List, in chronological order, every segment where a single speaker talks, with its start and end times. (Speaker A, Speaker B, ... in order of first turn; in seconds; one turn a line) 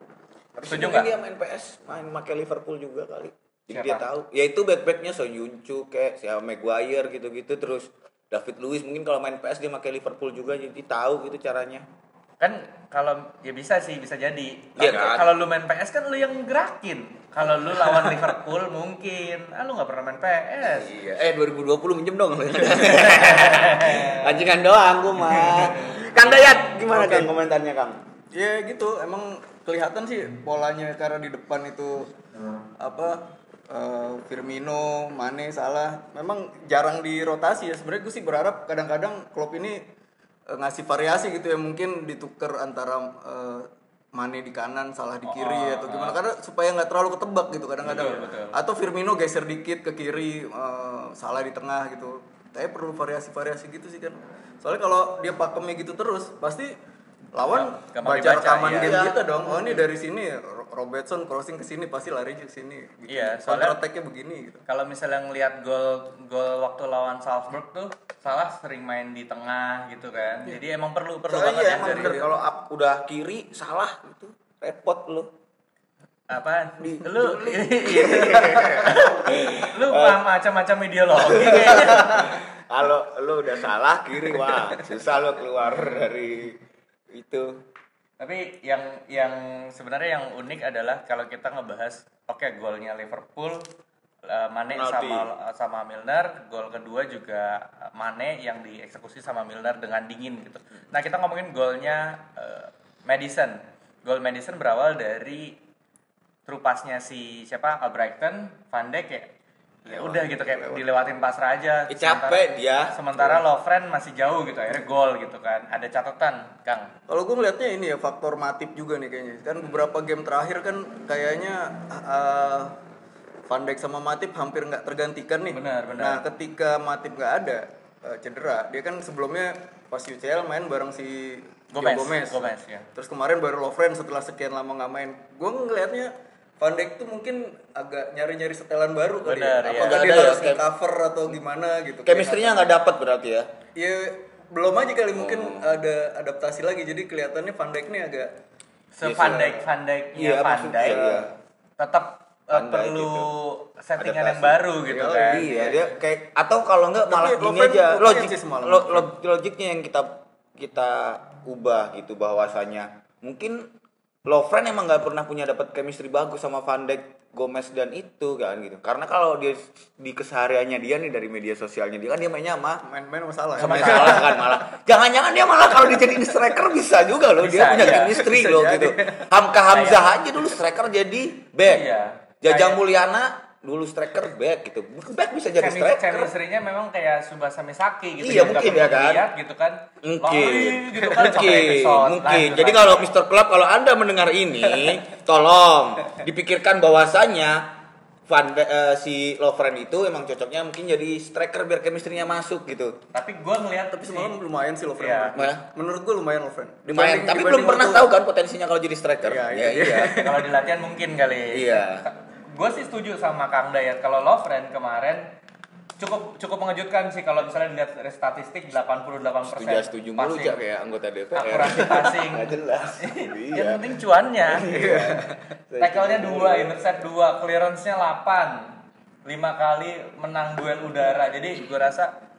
Speaker A: 0.6-11.9
Speaker B: 0.7-1.1
Speaker B: 3.7-4.0
Speaker B: 12.4-20.9
Speaker A: 14.8-15.3
Speaker A: 17.7-18.2
Speaker A: 20.6-28.0
Speaker B: 22.7-24.4
Speaker C: 26.9-27.3
Speaker C: 28.3-32.1
Speaker C: 32.8-39.8
Speaker C: 40.5-56.8
Speaker B: 45.3-46.2
Speaker B: 47.8-48.6
Speaker C: 57.3-64.6
Speaker B: 57.5-59.1
Speaker A: 58.7-59.9
Speaker B: 63.1-63.8
Speaker B: 64.7-72.3
Speaker A: 71.3-75.3
Speaker C: 71.7-72.3
Speaker B: 76.3-82.4
Speaker A: 76.8-80.2
Speaker A: 81.2-86.6
Speaker A: 87.1-87.6
Speaker B: 88.2-93.7
Speaker B: 94.3-105.6
Speaker A: 94.7-95.3
Speaker B: 106.5-109.3
Speaker B: 109.8-116.9
Speaker A: 109.9-110.3
Speaker A: 111.9-113.4
Speaker C: 117.1-122.8
Speaker C: 123.5-142.7
Speaker B: 125.5-126.2
Speaker B: 131.7-132.9
Speaker B: 139.2-140.1
Speaker A: 139.7-140.7
Speaker A: 142.1-143.5
Speaker C: 143.8-148.3
Speaker A: 145.1-145.8
Speaker B: 148.9-151.3
Speaker A: 149.0-151.3
Speaker B: 151.8-155.5
Speaker A: 152.5-153.3
Speaker A: 154.0-163.7
Speaker C: 154.8-155.9
Speaker C: 157.1-159.1
Speaker A: 164.3-172.8
Speaker C: 172.8-174.6
Speaker A: 173.6-181.9
Speaker B: 173.6-174.3
Speaker B: 177.4-178.2
Speaker C: 177.8-179.3
Speaker B: 179.7-180.1
Speaker B: 181.7-182.8
Speaker A: 182.4-186.3
Speaker B: 185.6-193.1
Speaker A: 188.2-189.3
Speaker A: 190.0-203.0
Speaker B: 203.1-204.4
Speaker C: 204.0-208.1
Speaker B: 205.0-205.3
Speaker A: 205.3-205.7
Speaker A: 206.9-210.3
Speaker C: 209.2-210.5
Speaker B: 210.2-215.3
Speaker A: 211.5-212.1
Speaker B: 216.0-220.6
Speaker A: 219.4-223.9
Speaker B: 221.3-224.7
Speaker A: 224.4-226.8
Speaker C: 224.7-225.4
Speaker B: 225.8-232.1